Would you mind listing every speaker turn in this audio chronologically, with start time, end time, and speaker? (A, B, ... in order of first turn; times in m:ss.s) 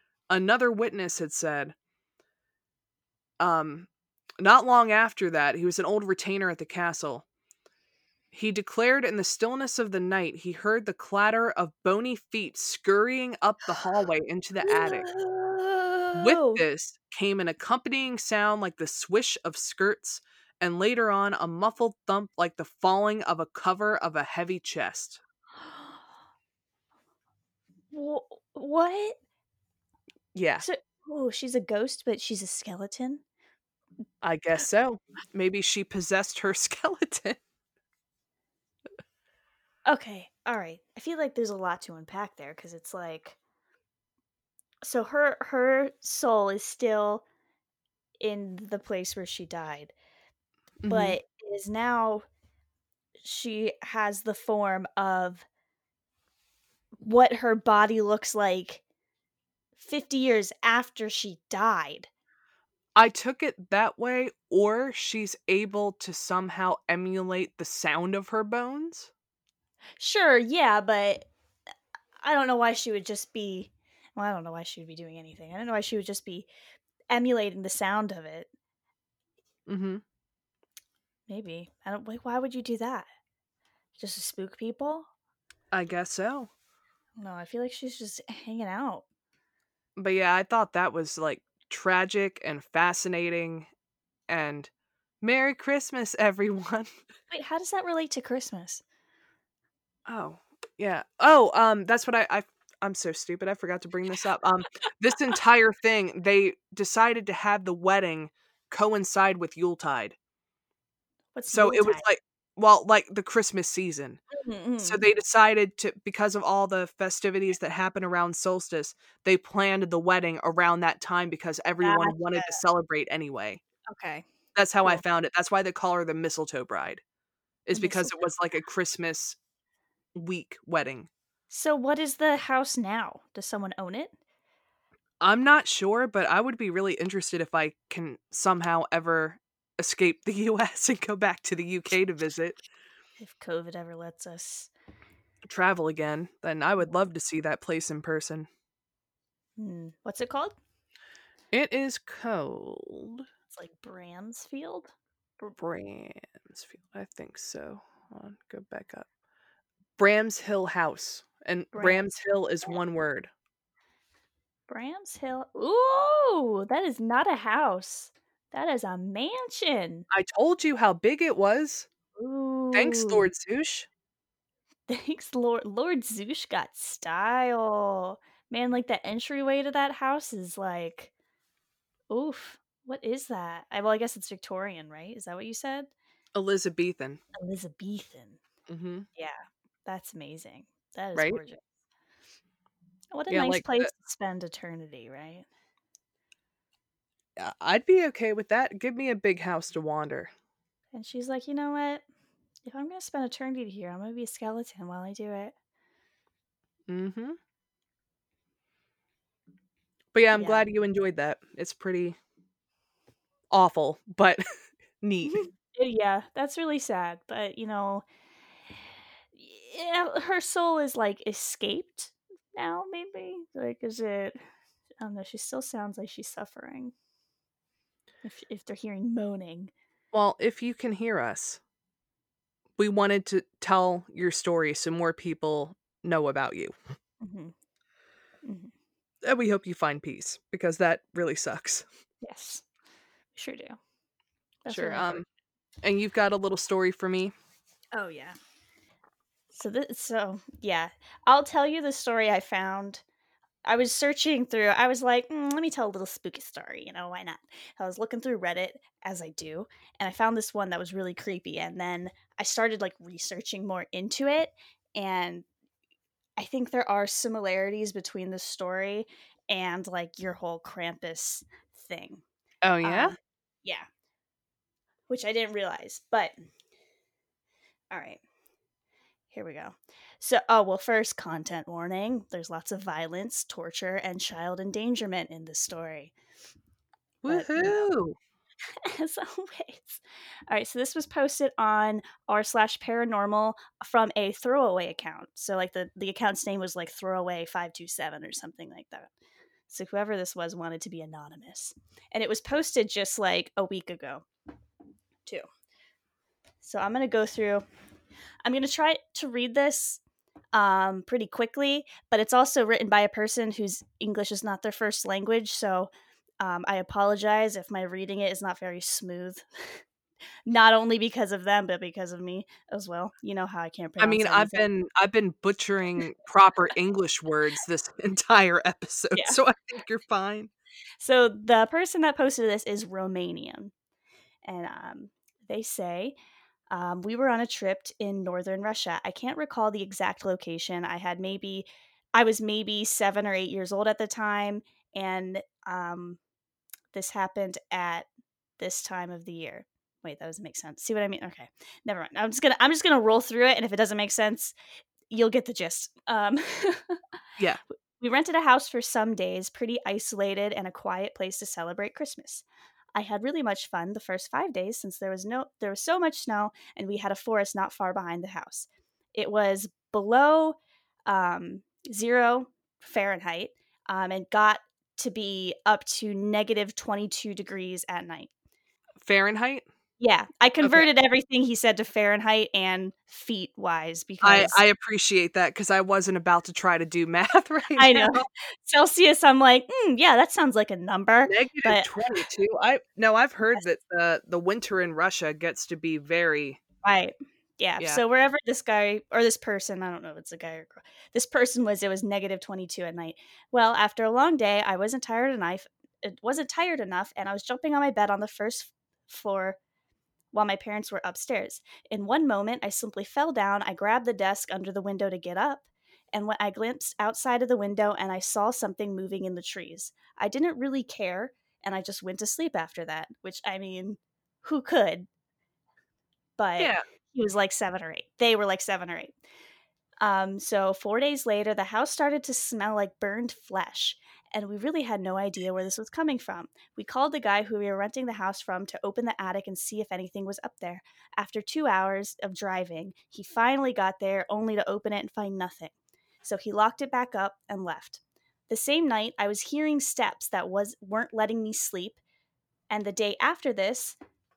0:00.3-0:01.8 A
0:03.4-0:03.9 A
0:04.4-0:07.2 A
0:08.3-0:15.1 A
0:14.6-0:16.6 B
0:16.2-0:25.2 A
0:27.9-0:29.2 B
0:30.3-0:30.6 A
0:30.6-0:33.2 B
0:34.2-0:37.4 A
0:39.9-0:43.4 B
0:44.8-0:47.2 B
0:48.2-0:49.9 B
0:50.8-0:51.2 A
0:50.9-0:52.3 B
0:53.2-0:55.5 B
0:57.0-0:58.8 B
0:59.8-1:02.1 B
1:03.0-1:09.1 A
1:10.0-1:11.3 B
1:12.2-1:16.5 B
1:17.1-1:18.5 B
1:19.7-1:20.0 A
1:21.3-1:23.1 B
1:24.0-1:25.1 B
1:25.7-1:26.5 A
1:27.2-1:29.0 B
1:30.0-1:33.7 A
1:34.3-1:34.7 A
1:35.2-1:36.9 A
1:37.3-1:38.8 B
1:40.1-1:50.2 A
1:51.4-1:52.0 B
1:51.5-1:54.2 A
1:54.3-1:55.0 B
1:54.8-2:03.6 A
2:01.8-2:02.6 B
2:03.9-2:04.2 B
2:04.6-2:07.0 A
2:07.7-2:09.4 A
2:07.7-2:08.3 B
2:10.2-2:11.1 A
2:11.5-2:14.1 B
2:15.2-2:22.6 A
2:23.2-2:24.7 B
2:25.4-2:28.5 A
2:29.6-2:30.6 B
2:31.5-2:33.2 A
2:33.5-2:34.9 B
2:35.5-2:39.1 A
2:40.0-2:43.3 A
2:41.7-2:42.1 B
2:44.7-2:50.1 B
2:50.1-2:51.9 A
2:52.2-2:53.3 B
2:52.7-2:53.9 A
2:54.9-3:01.1 B
3:02.1-3:05.9 B
3:06.3-3:07.2 A
3:07.4-3:08.4 B
3:08.7-3:09.1 A
3:09.2-3:11.6 B
3:11.2-3:11.4 A
3:13.1-3:15.5 B
3:13.3-3:13.9 A
3:17.4-3:20.3 A
3:20.9-3:22.0 B
3:22.7-3:25.5 B
3:26.9-3:27.4 A
3:30.1-3:32.2 A
3:30.3-3:30.7 B
3:33.5-3:34.4 A
3:35.0-3:35.4 A
3:35.2-3:38.0 B
3:39.4-3:44.4 B
3:45.0-3:46.9 B
3:48.2-3:49.7 B
3:50.1-3:51.6 A
3:52.8-3:56.8 A
3:57.2-3:57.5 B
3:58.4-3:58.7 B
3:59.2-4:01.9 A
4:02.2-4:02.6 B
4:03.4-4:03.8 B
4:04.6-4:05.1 B
4:04.7-4:05.3 A
4:05.8-4:07.3 A
4:07.9-4:08.4 B
4:09.5-4:13.0 B
4:13.6-4:25.5 B
4:26.4-4:32.2 B
4:32.6-4:33.2 A
4:32.8-4:33.9 B
4:35.1-4:36.3 B
4:37.9-4:38.2 B
4:39.3-4:46.1 B
4:47.2-4:48.2 A
4:47.3-4:47.8 B
4:48.8-4:59.1 B
4:59.7-5:04.2 B
5:06.6-5:07.6 B
5:08.4-5:10.0 B
5:10.5-5:19.8 B
5:20.5-5:24.7 B
5:24.0-5:30.5 A
5:31.0-5:33.7 B
5:34.4-5:36.2 B
5:36.7-5:46.2 B
5:46.9-5:48.1 B
5:48.6-5:54.6 B
5:55.1-5:57.0 B
5:58.0-6:02.4 B
6:03.0-6:18.3 B
6:19.0-6:19.7 A
6:20.0-6:24.6 B
6:20.6-6:20.9 A
6:24.2-6:28.2 A
6:27.8-6:32.2 B
6:31.3-6:36.6 A
6:36.8-6:49.6 B
6:50.3-7:05.1 B
7:06.4-7:09.2 B
7:10.0-7:32.0 B
7:32.7-7:34.0 B